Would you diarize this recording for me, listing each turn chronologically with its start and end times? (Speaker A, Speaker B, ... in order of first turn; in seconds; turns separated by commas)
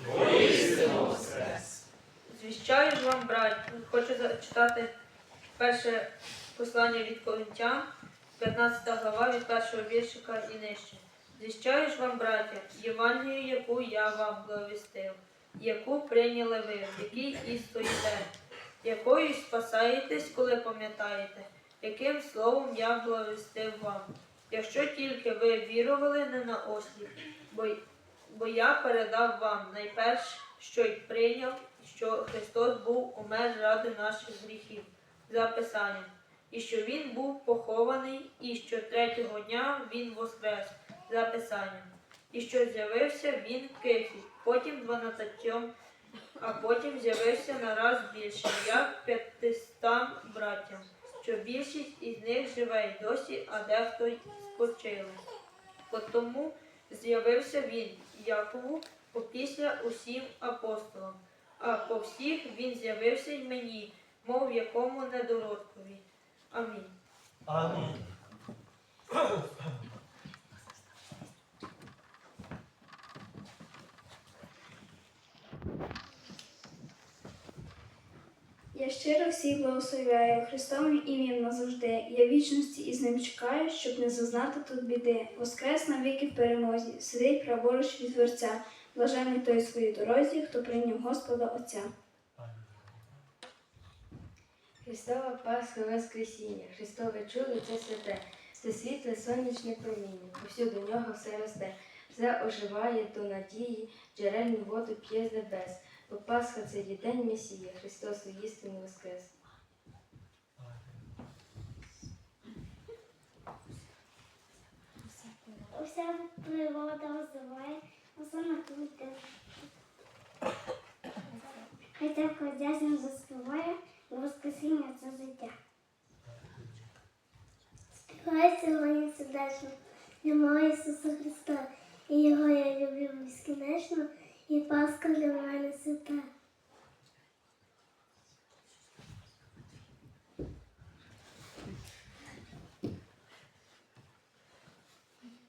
Speaker A: 0.2-1.1, Speaker A: 2.3-4.9, Speaker A: 5.6-18.3, Speaker A: 18.8-45.7, Speaker A: 46.4-55.2, Speaker A: 55.9-66.9, Speaker B: 67.5-67.8, Speaker C: 78.7-91.9, Speaker B: 92.4-93.2, Speaker D: 94.8-109.3, Speaker B: 110.6-110.9, Speaker E: 115.7-119.2, Speaker E: 122.0-125.5, Speaker B: 126.3-126.8, Speaker E: 128.1-136.3